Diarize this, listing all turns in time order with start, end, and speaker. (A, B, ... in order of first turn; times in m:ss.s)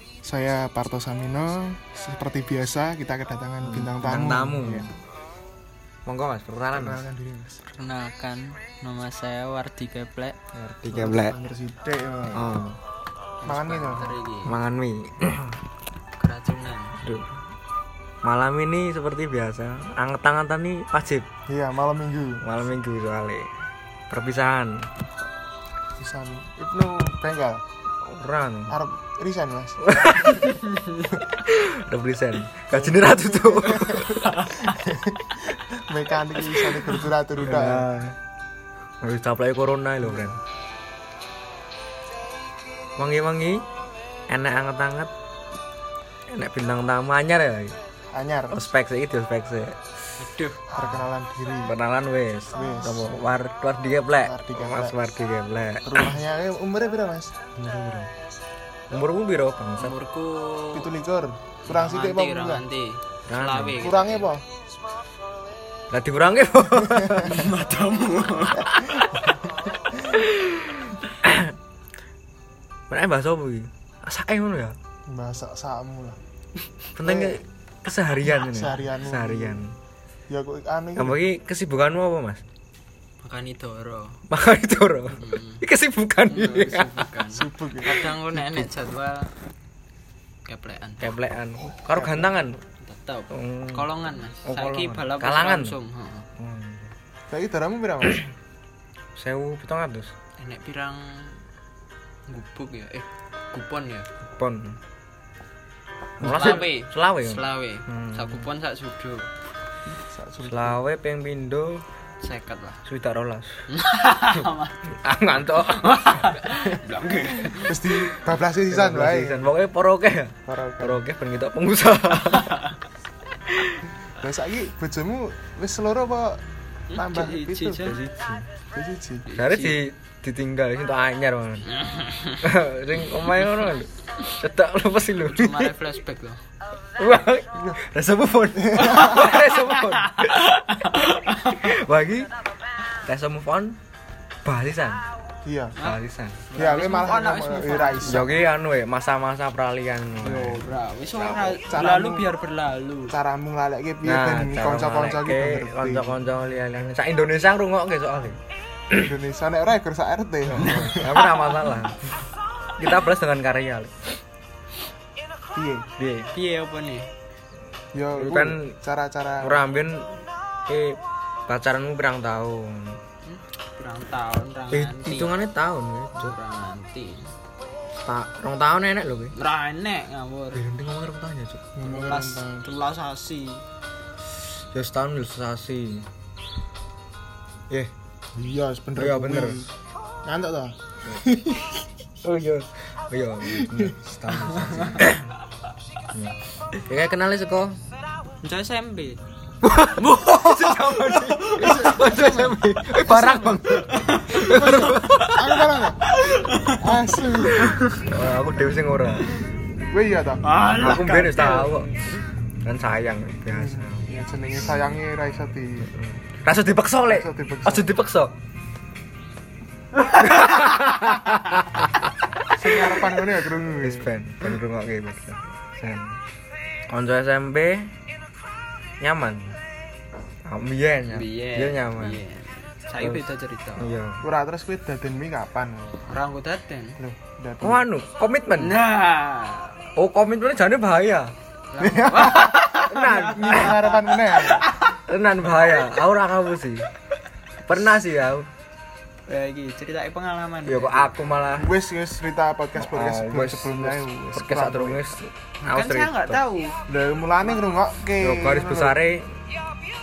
0:00.2-0:04.9 A
0:03.6-0:04.9 B
0:06.0-0:07.0 B
0:06.7-0:07.6 A
0:07.7-0:10.4 C
0:10.5-0:11.4 B
0:10.9-0:12.5 A
0:12.3-0:12.8 B
0:13.4-0:14.6 C
0:13.4-0:14.1 A
0:14.4-0:15.6 B
0:16.2-0:17.0 C
0:17.0-0:17.4 B
0:18.2-0:21.3 B
0:21.5-0:22.4 A
0:22.4-0:23.5 B
0:24.1-0:24.9 B
0:26.0-0:27.6 A
0:28.0-0:28.8 B
0:28.7-0:30.2 A
0:29.8-0:30.6 B
0:30.6-0:31.0 C
0:31.3-0:34.3 B
0:32.7-0:37.9 A
0:34.2-0:34.7 C
0:37.4-0:38.1 B
0:39.0-0:40.4 B
0:43.0-0:43.6 B
0:44.3-0:45.1 B
0:46.3-0:47.8 B
0:48.1-0:48.6 A
0:48.5-0:49.8 B
0:50.2-0:50.6 C
0:50.7-0:51.8 A
0:51.6-0:56.1 B
0:52.5-0:53.1 A
0:54.2-0:55.0 A
0:55.8-0:57.4 A
0:57.6-0:58.1 B
0:58.9-0:59.9 B
0:59.8-1:00.9 C
1:00.7-1:02.6 A
1:01.6-1:04.3 C
1:03.3-1:03.8 B
1:03.8-1:04.4 A
1:05.9-1:07.5 B
1:07.2-1:08.7 C
1:08.7-1:09.1 B
1:08.9-1:09.3 A
1:10.1-1:11.6 B
1:12.9-1:14.8 B
1:15.1-1:16.2 A
1:17.0-1:19.7 B
1:17.0-1:17.4 A
1:18.3-1:19.6 A
1:20.3-1:21.2 A
1:21.0-1:22.4 B
1:23.2-1:24.2 C
1:24.3-1:27.1 B
1:25.2-1:25.6 C
1:26.3-1:29.3 C
1:27.3-1:28.1 A
1:28.3-1:28.7 B
1:30.4-1:31.1 C
1:31.0-1:32.6 B
1:31.7-1:32.3 A
1:32.8-1:36.3 C
1:33.3-1:33.9 B
1:34.4-1:35.8 B
1:36.4-1:36.9 B
1:37.3-1:38.3 A
1:39.2-1:40.1 B
1:40.4-1:41.4 C
1:42.3-1:44.1 C
1:44.2-1:44.8 B
1:46.2-1:48.5 B
1:46.2-1:49.3 C
1:49.9-1:50.8 A
1:50.4-1:51.8 B
1:52.2-1:52.8 C
1:52.8-1:53.6 B
1:53.7-1:58.1 C
1:54.8-1:56.4 B
1:57.4-1:59.4 A
1:58.7-2:02.6 B
2:00.4-2:01.0 A
2:02.3-2:02.7 C
2:03.5-2:03.8 B
2:04.1-2:07.9 A
2:06.9-2:08.0 C
2:07.8-2:08.5 B
2:08.7-2:09.3 A
2:09.2-2:09.8 C
2:09.3-2:11.7 B
2:11.7-2:12.5 C
2:12.4-2:15.7 B
2:15.2-2:16.4 C
2:17.0-2:22.3 B
2:17.5-2:17.8 A
2:18.6-2:19.4 A
2:19.0-2:21.8 C
2:23.0-2:23.8 B
2:24.4-2:25.0 B
2:25.4-2:25.8 A
2:25.8-2:28.3 C
2:25.8-2:26.4 B
2:26.6-2:28.4 A
2:28.1-2:30.6 B
2:30.2-2:33.2 C
2:31.2-2:31.6 B
2:31.6-2:32.3 A
2:33.1-2:36.1 A
2:34.0-2:39.1 B
2:38.9-2:41.2 A
2:40.5-2:42.0 B
2:42.8-2:44.1 B
2:45.5-2:45.9 A
2:46.0-2:46.3 B
2:46.3-2:47.1 C
2:47.9-2:49.7 A
2:48.1-2:48.7 B
2:49.4-2:50.1 B
2:50.7-2:53.0 B
2:53.2-2:55.3 C
2:54.7-2:56.4 B
2:56.1-2:57.3 C
2:58.0-2:59.3 B
2:59.3-3:00.6 C
3:00.5-3:01.6 B
3:01.7-3:02.7 A
3:01.8-3:03.6 C
3:04.6-3:06.1 B
3:08.3-3:09.7 A
3:09.0-3:09.7 B
3:10.2-3:11.8 A
3:12.2-3:15.3 B
3:13.5-3:13.9 A
3:16.1-3:17.8 B
3:18.4-3:19.2 C
3:19.6-3:25.5 B
3:20.0-3:22.2 C
3:21.5-3:22.6 A
3:23.0-3:25.3 C
3:24.3-3:27.8 A
3:26.0-3:28.1 C
3:27.7-3:29.3 B
3:29.9-3:30.4 A
3:30.4-3:32.0 C
3:30.7-3:31.9 B
3:32.6-3:34.1 B
3:33.5-3:35.9 A
3:35.9-3:38.3 B
3:37.1-3:37.9 A
3:40.1-3:43.0 B
3:42.5-3:44.1 A
3:43.8-3:46.2 B
3:46.9-3:48.0 B
3:49.0-3:49.6 B
3:50.4-3:52.2 B
3:51.1-3:53.9 C
3:53.0-3:54.2 B
3:54.2-3:56.0 A
3:56.0-3:57.0 C
3:57.0-3:57.8 A
3:57.6-3:58.8 B
3:58.6-3:59.9 C
3:59.9-4:01.3 B
4:01.7-4:05.0 C
4:01.8-4:04.7 A
4:02.7-4:03.8 B
4:04.9-4:06.9 B
4:07.6-4:08.5 B
4:09.3-4:11.1 C
4:10.6-4:11.8 B
4:11.6-4:15.1 A
4:12.8-4:16.4 B
4:15.6-4:16.8 C
4:16.9-4:19.0 A
4:18.2-4:19.4 B